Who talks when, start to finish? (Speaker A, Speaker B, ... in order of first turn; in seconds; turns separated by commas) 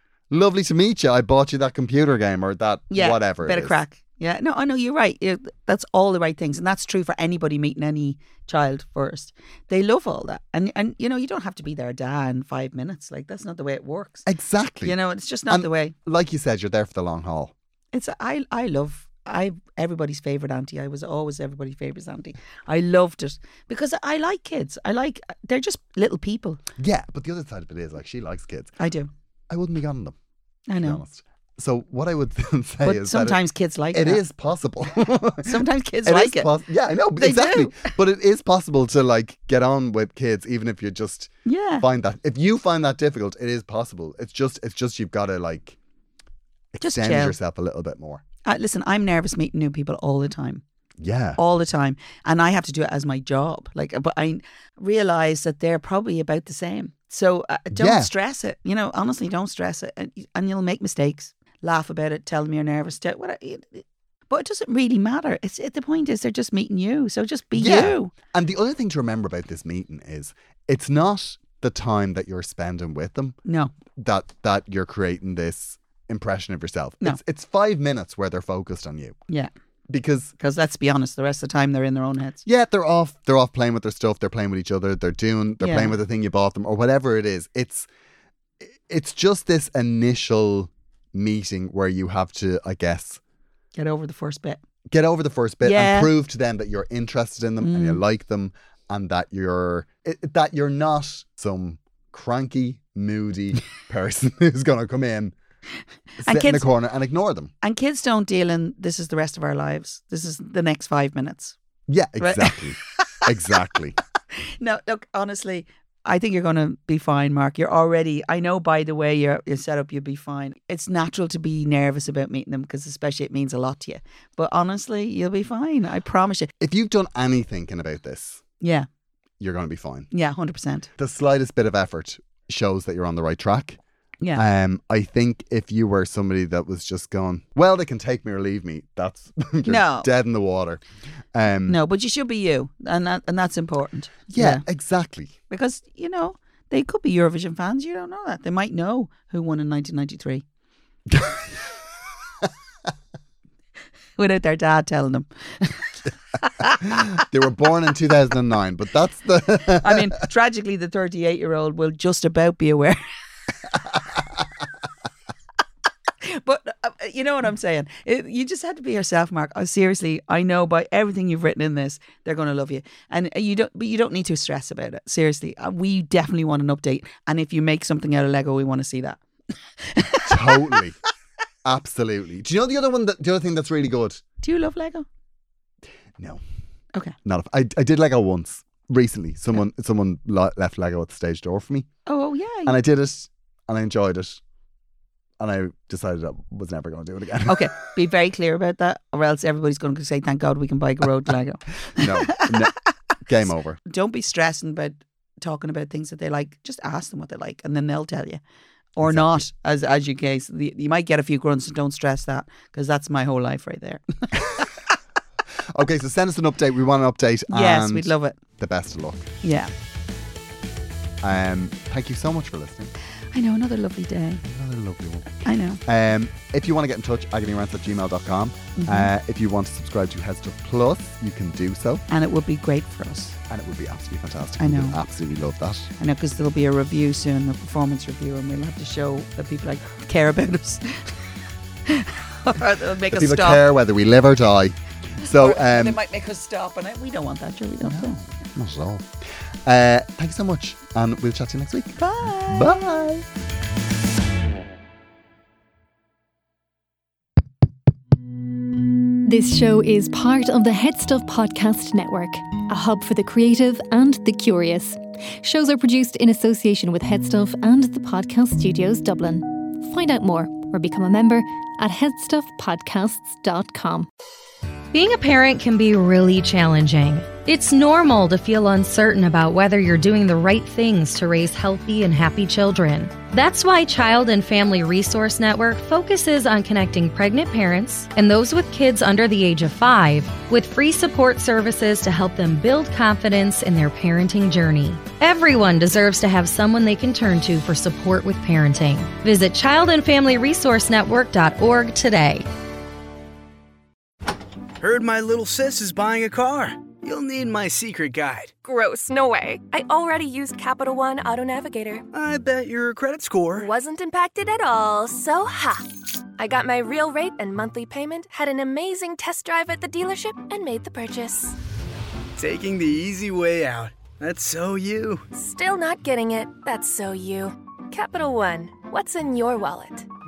Speaker A: 0.3-3.8, Speaker B: 2.9-14.2, Speaker A: 14.2-15.0, Speaker B: 14.8-15.9, Speaker A: 15.5-17.5, Speaker B: 17.9-26.6, Speaker A: 26.8-28.7, Speaker B: 28.8-29.1, Speaker A: 29.5-30.1, Speaker B: 30.7-31.0, Speaker A: 30.8-45.8, Speaker B: 32.8-34.2, Speaker B: 35.4-36.5, Speaker B: 37.2-37.9, Speaker B: 41.5-41.8, Speaker A: 46.7-48.2, Speaker B: 46.8-47.4, Speaker B: 48.4-50.6, Speaker A: 51.0-51.4, Speaker B: 51.4-68.1, Speaker A: 57.7-58.1, Speaker A: 67.5-73.3, Speaker B: 73.5-73.7, Speaker A: 73.9-79.2, Speaker A: 79.9-80.3, Speaker B: 80.4-82.4, Speaker A: 82.4-87.9, Speaker B: 85.6-86.0, Speaker A: 88.6-93.2, Speaker B: 93.7-94.6, Speaker A: 94.9-105.3, Speaker B: 95.6-96.1, Speaker B: 97.6-98.0, Speaker A: 106.2-107.5, Speaker B: 106.2-106.7, Speaker B: 107.6-111.5, Speaker A: 111.9-114.0, Speaker B: 112.2-112.6, Speaker B: 114.6-126.5, Speaker A: 126.6-128.4, Speaker B: 128.6-128.9, Speaker A: 129.4-130.1, Speaker B: 130.1-130.9, Speaker A: 131.0-133.8, Speaker A: 134.3-140.8, Speaker B: 139.6-140.1, Speaker A: 141.3-141.8, Speaker B: 141.7-144.6, Speaker A: 144.3-145.3, Speaker B: 145.5-150.4, Speaker A: 151.1-151.7, Speaker B: 154.2-155.9, Speaker B: 156.4-157.2, Speaker A: 156.9-160.2, Speaker B: 159.8-163.0, Speaker B: 166.2-179.2, Speaker B: 179.8-180.6, Speaker A: 180.2-181.0, Speaker A: 181.6-184.2, Speaker B: 184.4-185.1, Speaker A: 187.2-191.9, Speaker B: 192.1-192.8, Speaker A: 192.7-194.4, Speaker A: 195.4-197.8, Speaker B: 197.4-202.7, Speaker A: 201.9-202.7, Speaker A: 203.2-203.8, Speaker B: 203.8-208.4, Speaker B: 208.9-214.7, Speaker A: 209.0-209.4, Speaker A: 215.7-219.3, Speaker B: 217.5-218.3, Speaker B: 219.4-219.7, Speaker A: 221.2-222.9, Speaker B: 223.3-224.4, Speaker A: 224.4-232.0, Speaker B: 225.4-225.8, Speaker B: 228.8-229.1, Speaker B: 232.1-233.4, Speaker A: 233.5-235.9, Speaker B: 234.6-235.0, Speaker B: 236.0-241.1, Speaker B: 241.8-243.6, Speaker A: 243.1-246.0, Speaker B: 245.2-248.2, Speaker A: 247.8-253.3, Speaker B: 252.0-252.8, Speaker C: 259.2-274.1, Speaker D: 274.9-302.4, Speaker E: 304.8-308.5, Speaker F: 308.6-312.1, Speaker E: 312.1-313.7, Speaker F: 313.5-321.6, Speaker E: 322.4-325.2, Speaker F: 325.3-330.1